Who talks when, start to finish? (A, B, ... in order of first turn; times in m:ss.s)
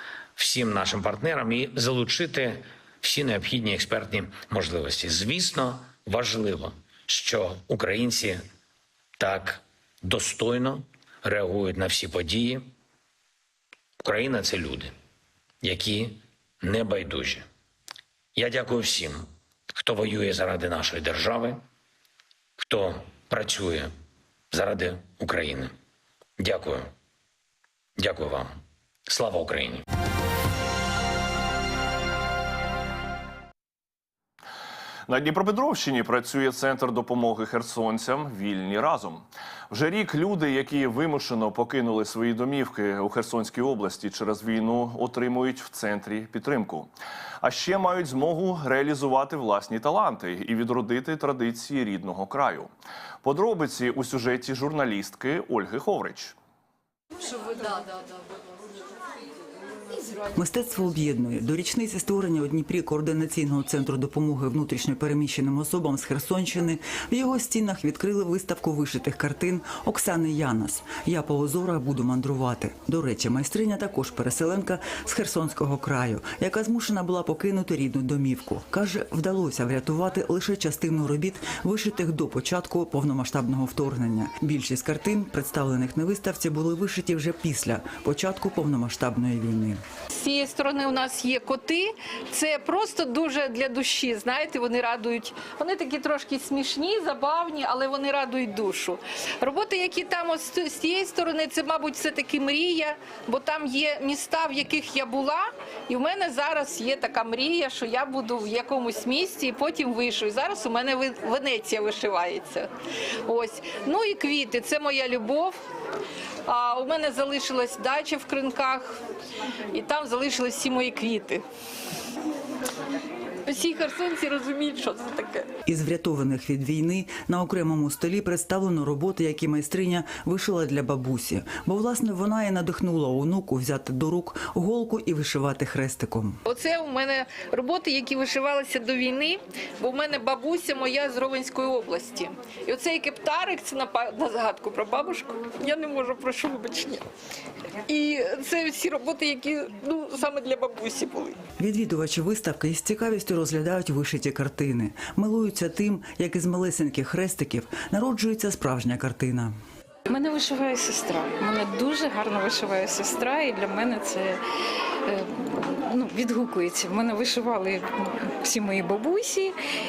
0:00.4-0:08.4 A
0:09.2-0:12.6 A
0:14.0-0:14.9 A
0:15.6-0:17.4 A
0:18.4-0:21.6 A
0:22.6-0:23.9 A
0:24.5-0:25.7 A
0:26.4-0:26.9 A
0:28.0-0:28.5 A
0:29.1-0:29.8 A
0:35.1-0:52.7 B
0:53.2-0:56.3 B
1:00.3-1:29.8 C
1:30.1-1:52.7 D
1:53.2-1:55.6 D
1:56.5-1:59.0 D
1:59.7-2:01.4 D
2:03.4-2:05.5 D
2:05.6-2:16.4 C
2:16.4-2:27.0 D
2:27.9-2:31.4 D
2:31.6-2:39.5 C
2:40.1-2:44.4 E
2:45.1-2:47.8 E
2:48.4-2:49.5 E